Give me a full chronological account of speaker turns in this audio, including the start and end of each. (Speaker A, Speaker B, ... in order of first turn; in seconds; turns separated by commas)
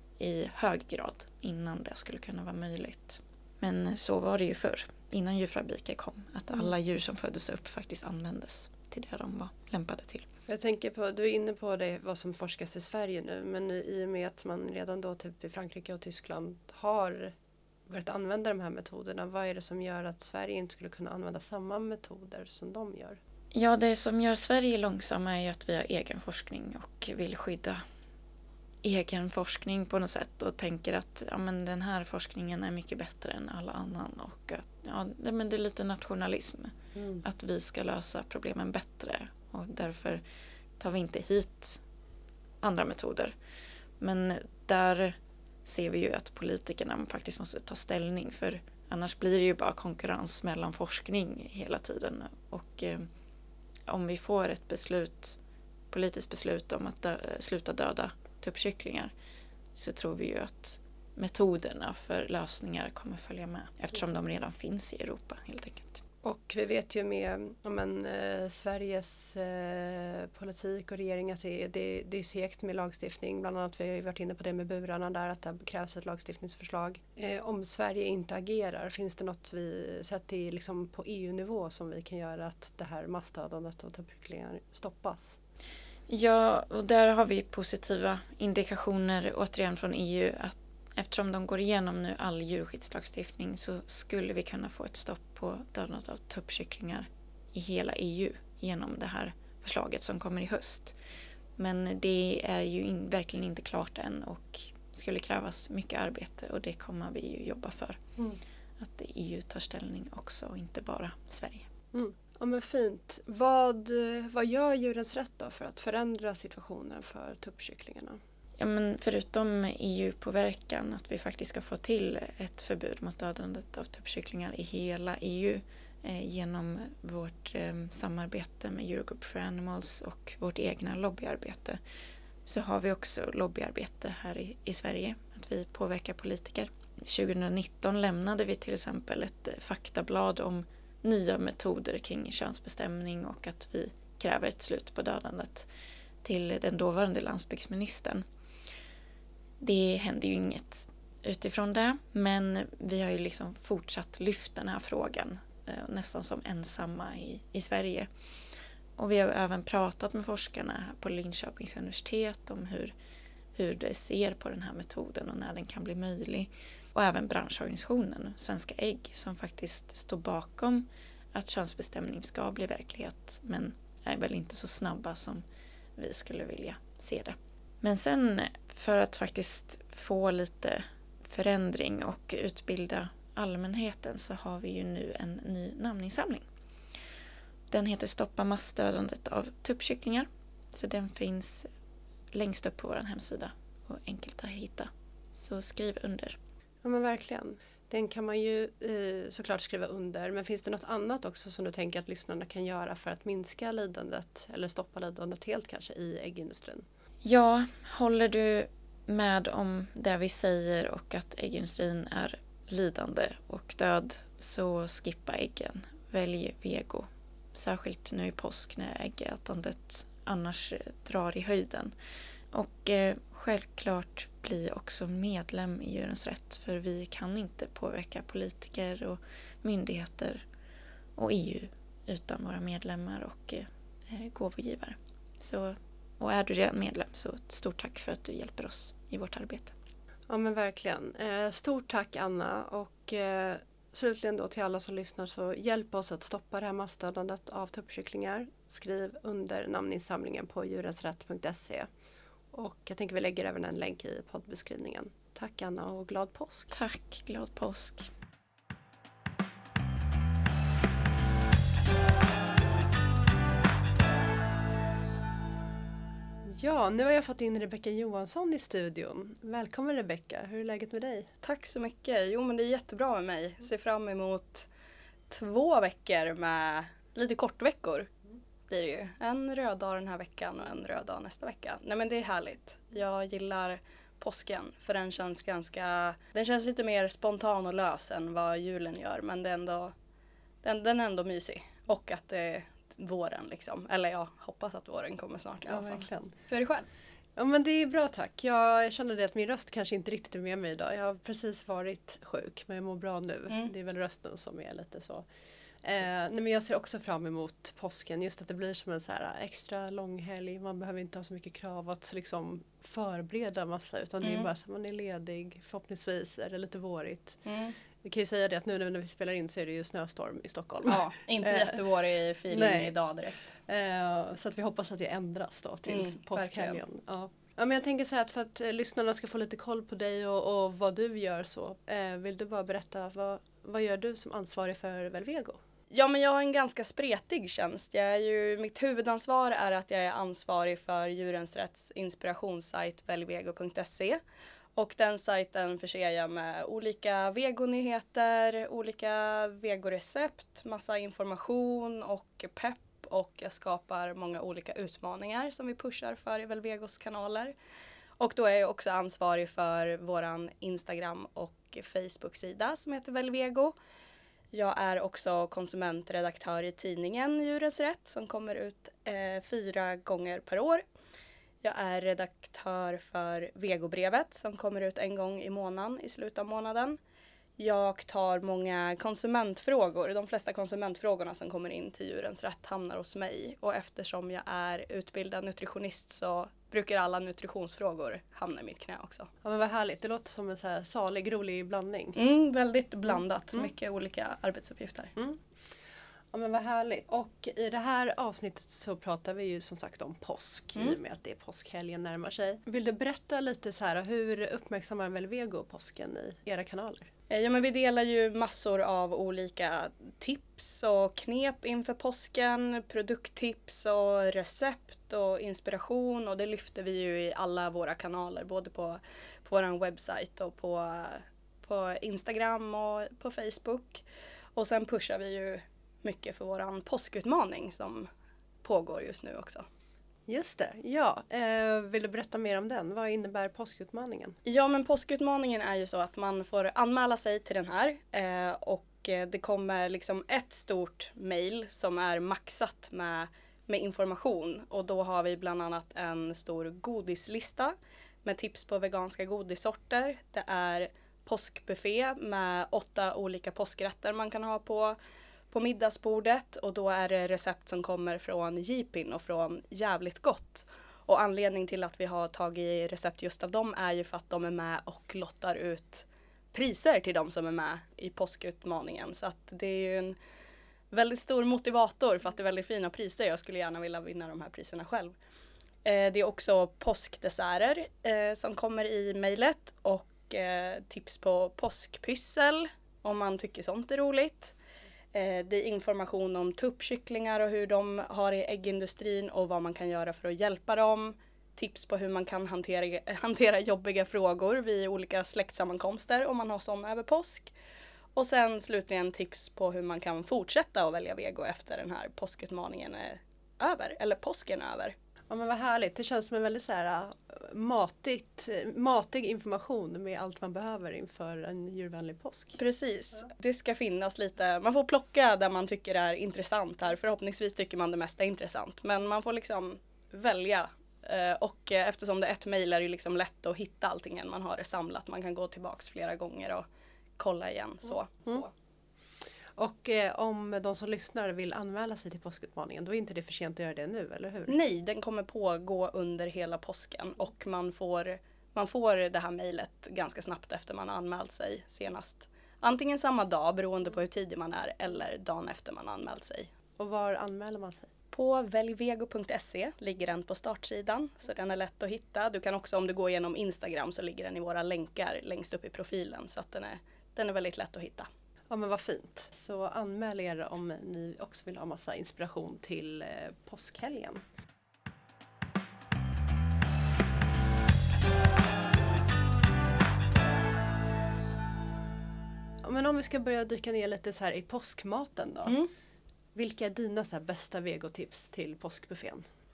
Speaker A: 0.2-10.3, Speaker B: 10.5-17.4, Speaker B: 17.9-23.2, Speaker A: 23.5-27.8, Speaker A: 28.8-40.2, Speaker B: 37.0-37.2, Speaker A: 40.8-41.8, Speaker A: 42.6-43.4, Speaker A: 44.0-53.1, Speaker A: 53.9-55.4, Speaker A: 55.9-59.1, Speaker A: 59.8-66.0, Speaker B: 66.2-85.4, Speaker A: 86.1-101.0, Speaker A: 101.6-108.0, Speaker A: 108.8-111.7, Speaker B: 111.9-118.2, Speaker A: 118.6-131.8, Speaker A: 132.5-145.7, Speaker A: 146.2-148.2, Speaker A: 149.6-158.1, Speaker A: 159.0-162.9, Speaker A: 163.6-175.4, Speaker A: 176.0-186.5, Speaker A: 187.7-191.7, Speaker A: 192.3-196.4, Speaker B: 196.8-206.8, Speaker A: 207.2-221.9, Speaker A: 222.5-230.4, Speaker A: 231.2-239.7, Speaker B: 240.3-251.9, Speaker B: 252.5-256.7, Speaker A: 256.7-258.1, Speaker B: 266.5-271.3, Speaker C: 271.4-274.7, Speaker C: 275.3-278.1, Speaker C: 278.7-289.9, Speaker C: 290.6-296.9, Speaker B: 295.7-296.3, Speaker B: 297.4-305.3, Speaker B: 305.8-317.4, Speaker C: 314.2-314.5, Speaker C: 317.5-317.8, Speaker B: 318.0-321.8, Speaker C: 320.9-323.6, Speaker B: 322.5-322.9, Speaker B: 323.7-335.6, Speaker C: 325.9-326.8, Speaker C: 335.9-344.2, Speaker C: 344.8-357.5, Speaker C: 358.2-363.8, Speaker C: 364.5-370.8, Speaker C: 371.6-377.0, Speaker C: 377.6-389.3, Speaker B: 389.4-392.2, Speaker C: 392.1-395.1, Speaker B: 395.2-395.4, Speaker B: 396.3-407.1, Speaker C: 407.3-424.0, Speaker C: 424.6-428.1, Speaker C: 428.6-429.7, Speaker B: 430.3-434.4, Speaker C: 434.4-455.0, Speaker C: 455.5-470.2, Speaker C: 470.9-475.2, Speaker C: 475.9-484.6, Speaker C: 485.1-497.5, Speaker C: 498.1-504.9, Speaker B: 505.3-512.6, Speaker C: 512.6-526.7, Speaker C: 527.2-528.5, Speaker B: 529.6-534.6, Speaker C: 534.5-546.5, Speaker B: 546.8-547.9, Speaker C: 548.1-558.1, Speaker B: 558.5-564.2, Speaker B: 572.6-575.6, Speaker C: 575.5-575.7, Speaker B: 576.4-579.2